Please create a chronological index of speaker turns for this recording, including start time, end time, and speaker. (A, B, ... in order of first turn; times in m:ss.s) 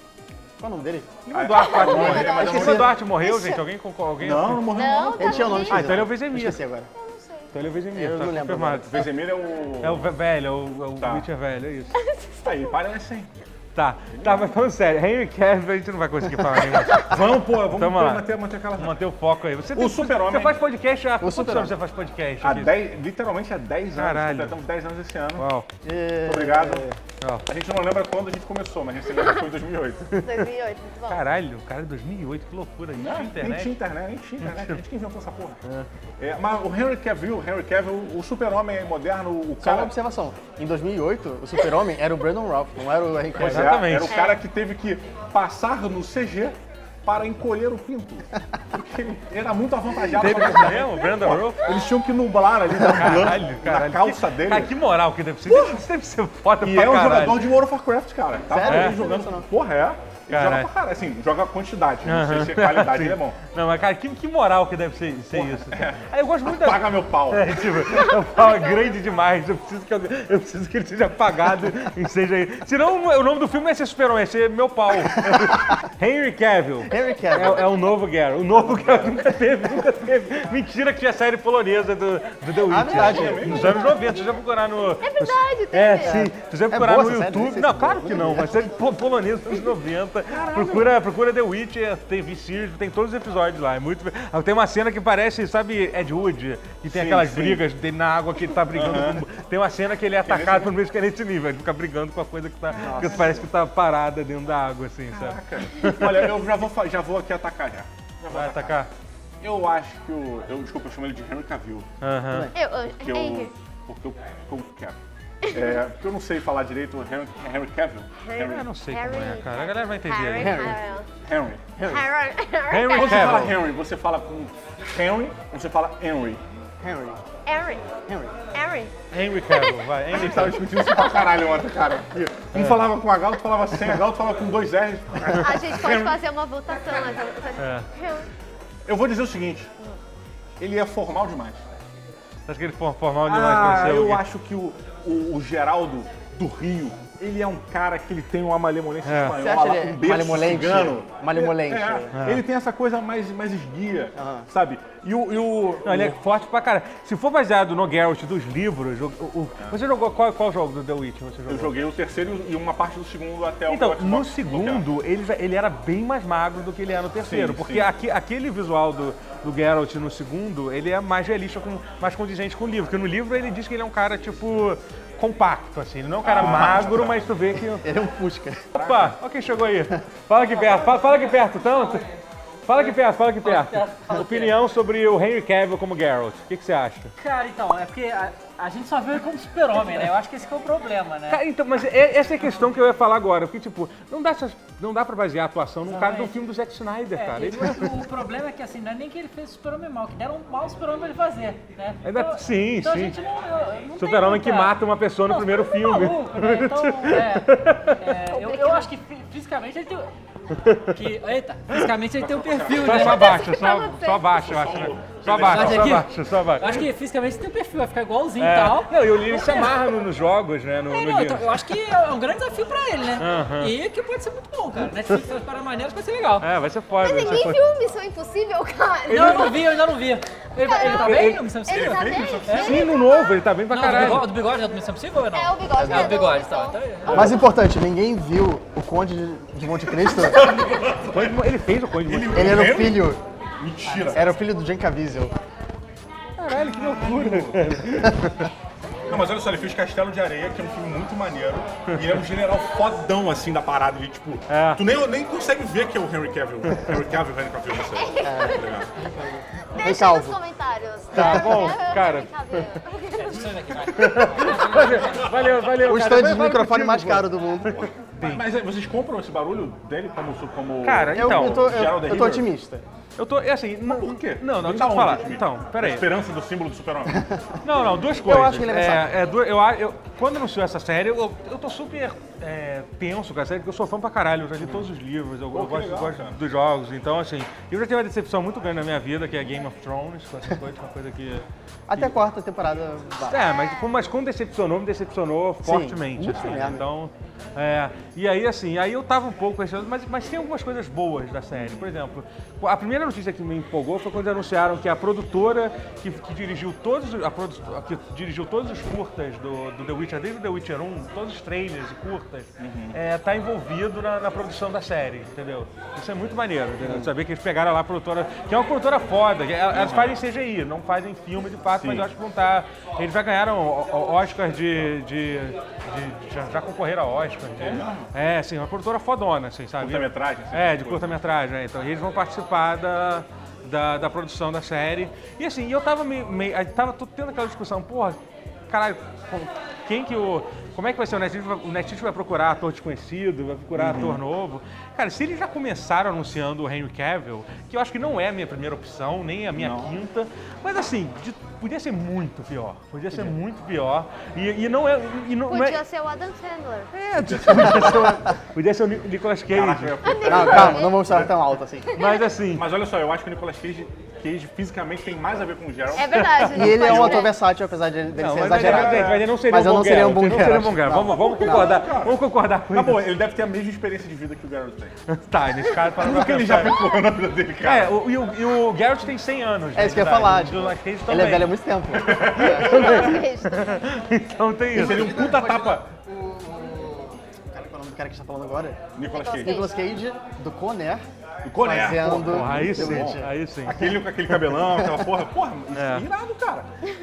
0:00.6-0:01.2 A
0:01.3-0:02.9 B
0:01.3-0:04.7 C
0:01.5-0:03.6 D
0:02.0-0:03.0 A
0:04.2-0:05.7 B
0:04.7-0:05.8 D
0:05.2-0:06.9 A
0:05.7-0:06.6 C
0:06.9-0:07.5 D
0:07.5-0:09.0 C
0:07.9-0:09.0 A
0:08.9-0:10.1 B
0:09.8-0:12.0 C
0:11.0-0:11.2 B
0:12.0-0:12.3 D
0:12.4-0:13.3 B
0:13.7-0:22.8 C
0:14.1-0:14.5 B
0:17.0-0:19.0 B
0:19.7-0:20.6 B
0:21.2-0:21.7 A
0:22.4-0:25.4 B
0:24.0-0:24.6 C
0:25.4-0:25.7 C
0:25.8-0:27.0 A
0:26.2-0:26.9 B
0:27.5-0:30.2 B
0:30.1-0:30.5 C
0:30.2-0:31.2 D
0:31.1-0:33.8 C
0:33.0-0:35.6 B
0:34.4-0:34.8 C
0:36.2-0:39.9 B
0:39.6-0:43.8 A
0:43.3-0:54.7 B
0:43.4-0:44.2 C
0:44.0-0:44.4 D
0:50.2-0:51.6 C
0:52.8-0:57.4 C
0:55.4-0:55.8 B
0:56.6-1:03.4 B
0:58.5-0:59.4 A
0:58.7-0:59.0 C
1:00.3-1:00.7 C
1:02.0-1:46.3 C
1:05.3-1:07.8 B
1:08.4-1:08.9 D
1:15.1-1:15.5 A
1:16.9-1:17.7 A
1:18.6-1:19.2 B
1:22.6-1:24.0 A
1:22.9-1:23.8 B
1:25.0-1:26.1 D
1:26.0-1:28.8 A
1:30.3-1:31.0 B
1:36.9-1:37.6 B
1:38.7-1:39.2 B
1:40.2-1:40.7 B
1:42.7-1:43.5 B
1:42.8-1:43.4 A
1:45.1-1:48.8 B
1:48.3-1:48.9 C
1:49.4-1:51.8 B
1:52.0-1:52.5 C
1:52.3-1:52.6 A
1:52.5-1:53.5 D
1:52.8-1:55.0 B
1:55.4-1:55.8 D
1:55.5-1:58.6 B
1:58.2-2:01.1 D
1:58.4-2:00.8 C
2:00.3-2:00.8 A
2:01.2-2:01.6 B
2:01.8-2:02.1 A
2:01.9-2:03.5 D
2:02.7-2:03.6 C
2:02.9-2:06.4 B
2:06.8-2:07.2 A
2:07.4-2:07.9 D
2:08.1-2:08.4 A
2:08.5-2:08.9 D
2:09.1-2:10.6 C
2:09.5-2:11.5 D
2:10.1-2:16.2 B
2:12.5-2:12.9 C
2:15.3-2:18.3 D
2:17.6-2:17.8 C
2:18.8-2:19.7 B
2:20.6-2:21.6 B
2:22.5-2:24.2 C
2:23.2-2:36.2 B
2:29.0-2:29.4 C
2:29.4-2:32.1 A
2:32.2-2:32.4 C
2:34.2-2:34.5 A
2:35.8-2:41.8 C
2:41.5-2:44.9 B
2:43.7-2:57.9 C
2:47.2-2:47.9 B
2:56.2-2:57.3 B
2:57.8-2:58.7 A
2:58.7-2:59.2 B
2:58.8-3:02.0 C
3:00.5-3:01.4 E
3:02.7-3:07.1 C
3:02.7-3:04.6 E
3:07.2-3:11.4 E
3:11.3-3:18.0 C
3:15.9-3:16.4 E
3:17.1-3:30.1 E
3:22.0-3:23.2 C
3:24.0-3:28.2 C
3:28.3-3:28.9 D
3:30.5-3:31.0 C
3:30.9-3:33.4 E
3:32.2-3:33.2 B
3:32.7-3:36.9 C
3:33.0-3:34.6 D
3:34.3-3:36.0 B
3:35.4-3:40.0 E
3:38.4-3:41.6 C
3:40.9-3:46.5 E
3:43.2-3:43.7 C
3:46.4-3:47.6 C
3:47.0-3:49.8 D
3:49.1-3:52.8 E
3:50.6-3:53.4 D
3:50.7-3:51.5 C
3:51.7-3:52.9 B
3:52.5-3:54.4 C
3:53.7-3:57.4 E
3:55.3-3:57.4 D
3:55.8-3:56.2 A
3:57.1-4:00.5 A
4:00.0-4:01.4 B
4:01.0-4:02.8 C
4:02.0-4:04.3 B
4:02.3-4:03.2 A
4:03.9-4:05.3 A
4:06.4-4:08.5 C
4:06.5-4:07.8 B
4:09.1-4:18.9 B
4:14.5-4:14.8 C
4:17.9-4:18.8 D
4:18.2-4:20.4 A
4:19.7-4:24.5 D
4:21.1-4:21.7 A
4:21.1-4:22.8 C
4:23.2-4:25.4 E
4:23.9-4:28.4 C
4:25.8-4:27.9 A
4:28.2-4:32.5 B
4:30.8-4:31.8 C
4:31.1-4:32.8 A
4:33.2-4:36.1 C
4:33.8-4:37.3 B
4:37.1-4:39.1 A
4:37.6-4:51.4 C
4:45.5-4:46.4 B
4:51.9-4:53.5 A
4:53.3-5:38.2 C
4:53.3-4:54.0 D
4:55.6-4:56.9 A
5:01.5-5:01.9 B
5:12.6-5:13.0 B
5:16.8-5:17.1 B
5:19.7-5:20.2 B
5:21.7-5:22.1 B
5:27.6-5:28.1 B
5:29.8-5:31.1 B
5:38.7-5:55.8 C
5:43.7-5:44.2 B
5:49.6-5:49.9 B
5:55.5-5:56.9 D
5:56.9-6:00.0 C
5:57.1-5:58.1 B
5:57.5-5:58.3 A
5:59.5-6:01.3 B
6:00.0-6:01.0 D
6:00.3-6:02.0 A
6:01.9-6:02.2 D
6:01.9-6:02.7 C
6:02.5-6:07.3 B
6:05.9-6:07.3 D
6:06.1-6:06.9 C
6:06.5-6:11.8 A
6:08.2-6:13.1 C
6:08.5-6:09.3 B
6:11.2-6:14.9 B
6:15.1-6:16.8 C
6:15.9-6:17.9 B
6:17.6-6:25.2 C
6:19.7-6:23.0 A
6:22.0-6:22.4 B
6:22.5-6:23.8 D
6:24.7-6:28.8 A
6:24.7-6:25.9 B
6:29.0-6:29.6 B
6:29.1-6:29.8 D
6:29.3-6:31.0 A
6:31.4-6:36.7 B
6:31.6-6:33.3 A
6:32.2-6:34.0 C
6:35.7-6:36.0 C